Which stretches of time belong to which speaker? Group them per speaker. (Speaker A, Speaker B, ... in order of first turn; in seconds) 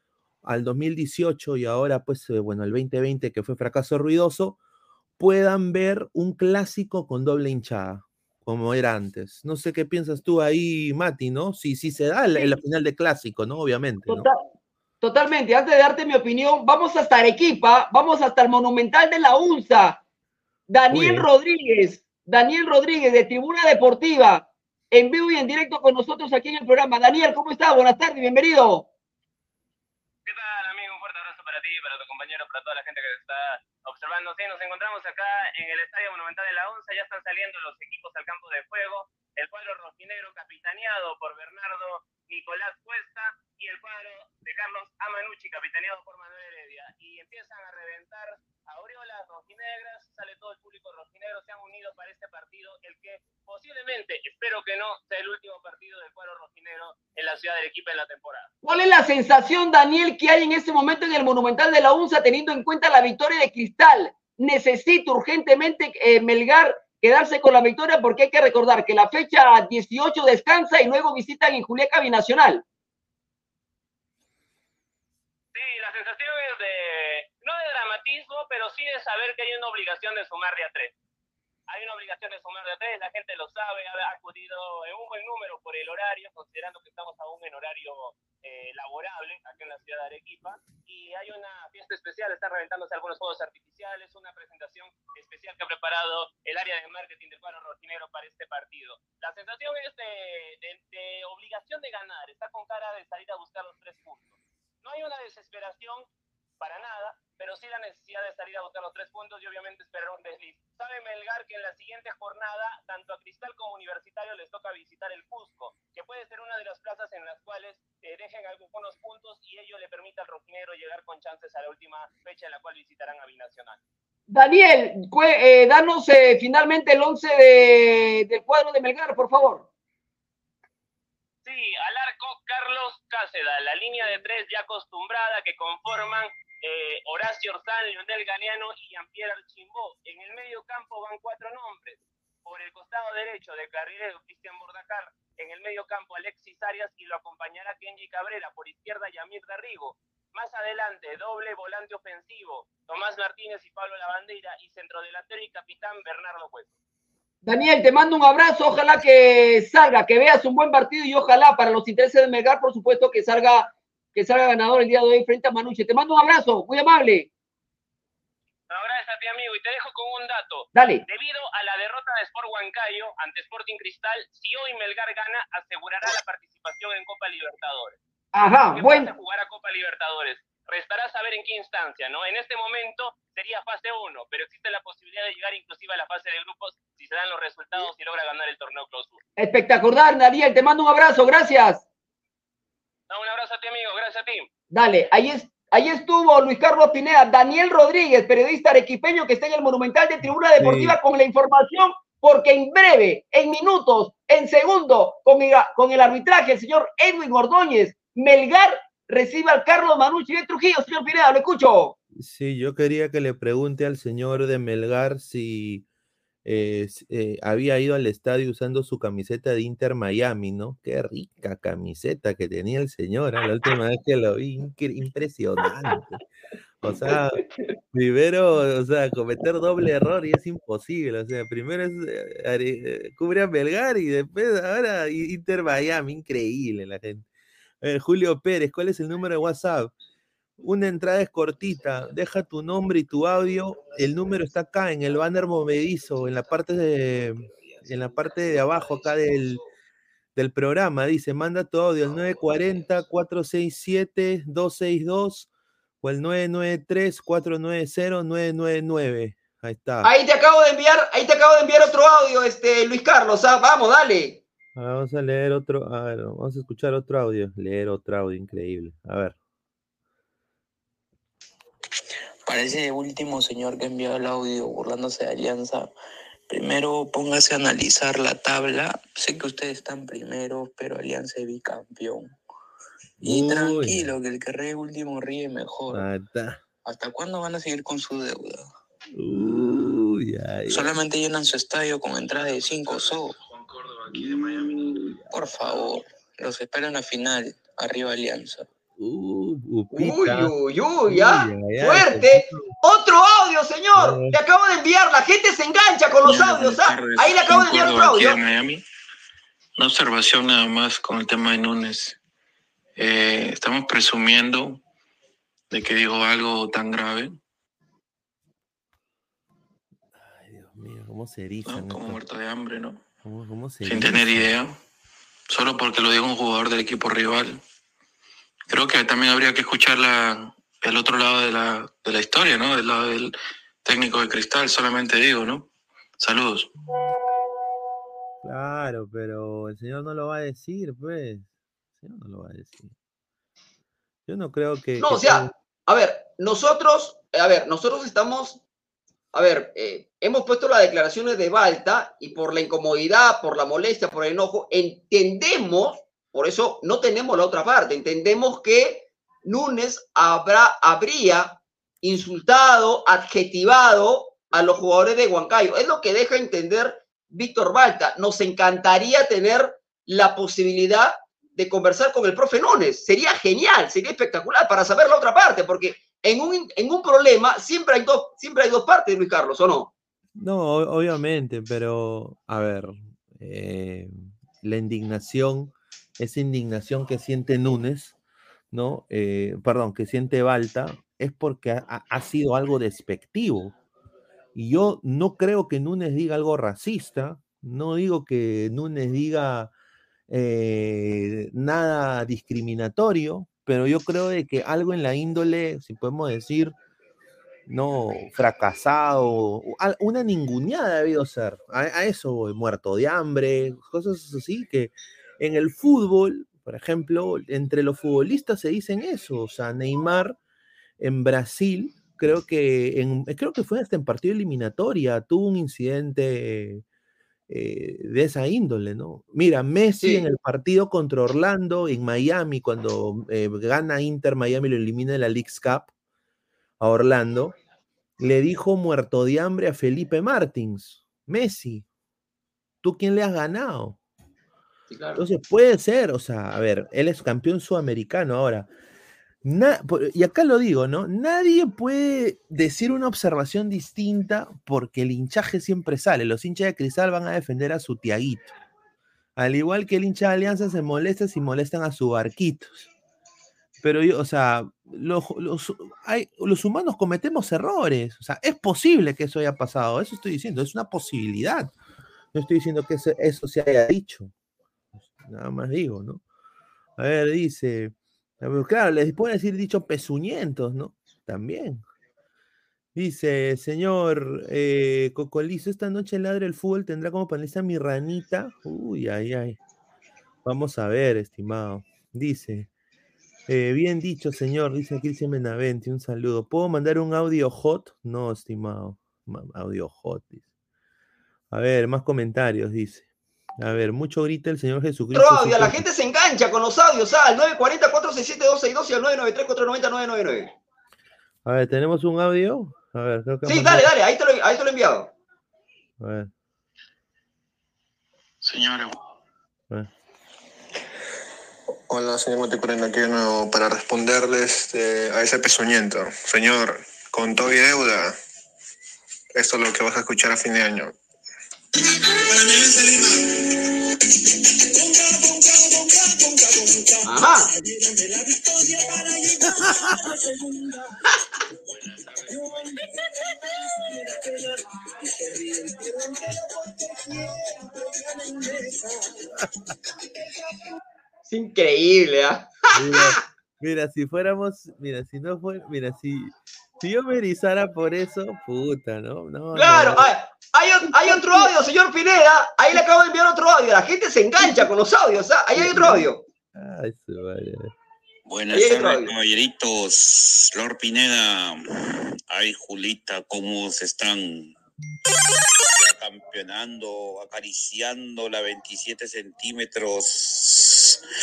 Speaker A: 0.4-4.6, 5.2-14.3, 20.9-21.3, 200.6-201.0, 212.2-215.8, 216.4-226.2, 226.8-227.4, 227.9-237.3, 237.8-239.9, 240.6-249.6, 250.4-255.5, 256.0-260.1, 264.8-269.4, 283.2-284.1, 285.9-286.6, 289.1-290.9, 294.1-295.3, 299.0-302.7, 304.0-304.4, 320.2-322.2, 323.2-324.5, 338.4-342.9, 344.3-345.5, 380.4-388.2, 388.7-393.8, 394.6-399.7, 400.3-406.7, 407.7-420.4, 421.0-426.8, 427.5-435.9, 436.8-437.6, 438.2-441.9, 442.8-444.0, 445.2-448.7, 449.4-458.5, 459.4-462.9, 463.8-471.7, 472.3-474.3, 475.0-476.2, 477.0-481.8, 482.9-489.6, 490.4-492.7, 493.5-500.4, 501.5-503.1, 503.6-505.8, 511.4-513.9, 516.0-516.3, 539.6-539.9, 549.4-549.7, 552.7-560.1, 560.9-561.5, 564.4-564.7, 565.5-567.7
Speaker B: 14.1-14.4, 15.0-20.0, 20.7-28.9, 58.6-72.6, 124.3-129.7, 157.5-167.3, 170.7-171.0, 178.3-179.1, 189.4-191.8, 194.7-212.0, 260.0-264.4, 299.9-308.4, 345.0-348.6, 349.3-379.9, 444.9-445.2, 505.1-510.5, 513.5-515.1, 537.0-537.5, 551.3-553.2, 559.5-566.2, 568.5-569.1
Speaker C: 30.3-58.5, 75.5-80.9, 81.7-106.1, 106.6-123.8, 131.4-156.7, 168.7-178.0, 178.7-189.2, 193.1-194.5
Speaker D: 272.5-275.9, 276.5-282.4, 283.2-286.1, 286.9-288.7, 290.7-293.4, 295.3-298.7
Speaker E: 306.2-308.8, 309.8-312.2, 313.0-314.8, 315.7-317.4, 321.7-323.0, 323.9-324.8, 325.5-327.6, 328.7-333.3, 333.8-335.7, 336.2-336.7, 518.4-519.0
Speaker F: 521.9-528.2, 529.3-530.9, 532.2-533.4, 534.7-537.0, 537.6-540.7, 542.3-542.7, 545.3-545.9, 547.2-548.9
Speaker G: 568.3-571.6, 572.3-574.6, 575.8-581.0